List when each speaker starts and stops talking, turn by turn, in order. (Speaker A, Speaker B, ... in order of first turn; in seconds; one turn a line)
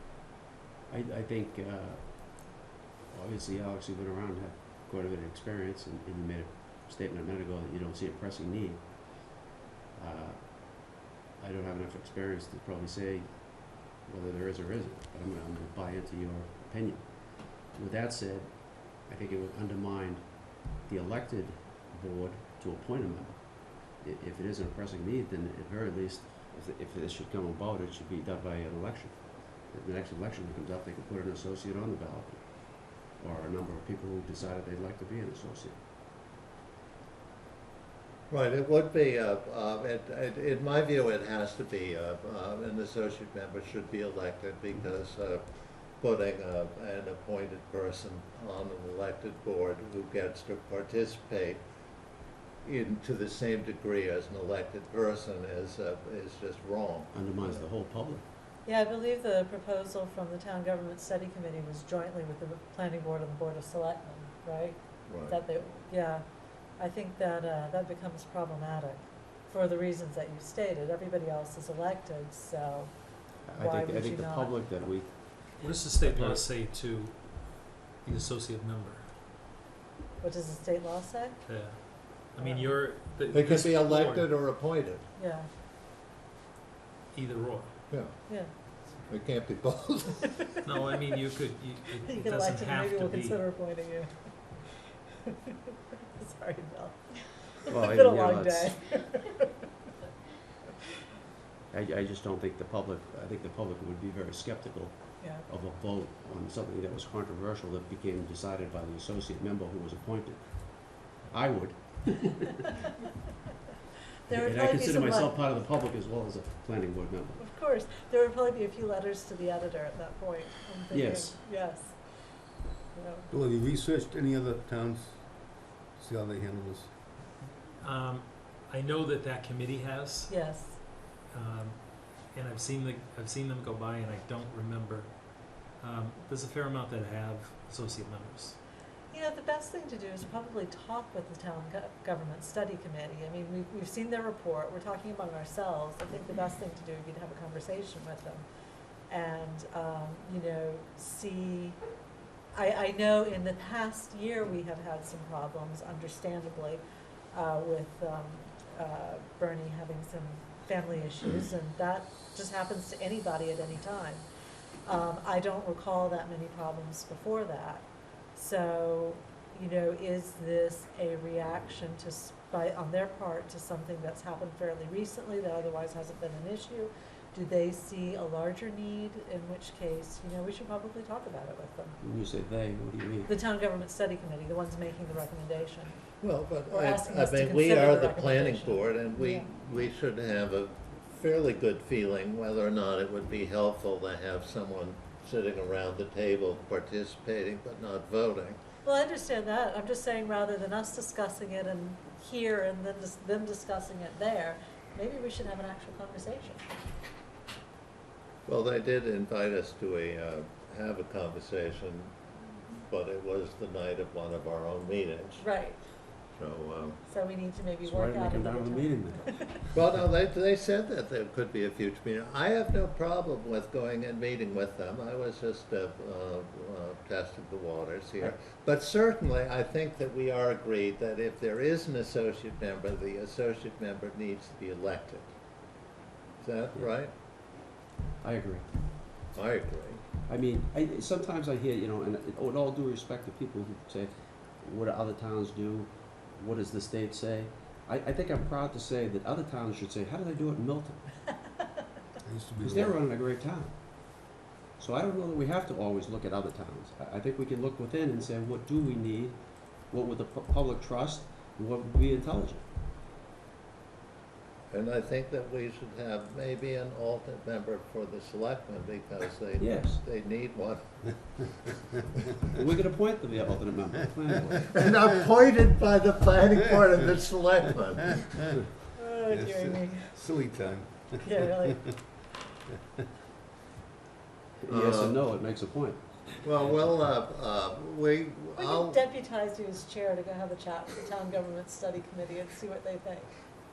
Speaker A: 0.9-2.6
Speaker A: 3.1-35.8
Speaker B: 38.3-45.4
Speaker B: 46.0-51.6
Speaker B: 52.6-57.6
Speaker A: 57.1-58.2
Speaker C: 58.6-66.2
Speaker B: 65.0-65.4
Speaker C: 66.8-74.9
Speaker A: 73.5-75.1
Speaker D: 75.6-79.0
Speaker E: 75.6-76.4
Speaker C: 80.2-81.8
Speaker D: 81.5-84.3
Speaker C: 82.4-82.9
Speaker B: 83.3-85.0
Speaker C: 85.2-85.5
Speaker D: 87.1-87.7
Speaker B: 89.1-90.3
Speaker D: 90.7-93.4
Speaker C: 92.1-94.1
Speaker C: 95.2-99.4
Speaker A: 97.7-98.7
Speaker A: 101.7-112.6
Speaker C: 105.2-105.5
Speaker C: 114.3-115.4
Speaker A: 114.3-117.4
Speaker C: 117.4-122.2
Speaker A: 120.9-121.4
Speaker C: 122.9-123.3
Speaker E: 123.3-126.9
Speaker D: 127.8-130.3
Speaker C: 130.3-130.8
Speaker D: 131.3-135.1
Speaker D: 135.6-138.6
Speaker C: 139.1-148.4
Speaker C: 149.1-151.8
Speaker C: 152.5-156.8
Speaker C: 157.3-164.2
Speaker C: 164.8-182.0
Speaker A: 182.0-183.3
Speaker C: 183.3-186.0
Speaker B: 186.2-198.6
Speaker C: 186.7-189.5
Speaker C: 198.8-206.7
Speaker B: 208.5-212.2
Speaker B: 212.8-215.5
Speaker C: 215.4-215.8
Speaker B: 216.4-217.0
Speaker C: 217.1-219.6
Speaker A: 217.8-219.7
Speaker B: 219.7-235.3
Speaker B: 236.4-237.1
Speaker A: 238.2-238.7
Speaker B: 239.3-240.0
Speaker A: 240.3-251.1
Speaker E: 252.2-253.0
Speaker A: 252.6-262.6
Speaker B: 264.7-271.0
Speaker A: 269.6-270.0
Speaker A: 272.5-274.6
Speaker B: 274.6-278.2
Speaker C: 278.9-280.1
Speaker E: 279.3-282.0
Speaker C: 281.2-281.9
Speaker A: 284.6-286.1
Speaker B: 284.7-285.2
Speaker B: 286.4-289.0
Speaker C: 288.6-293.3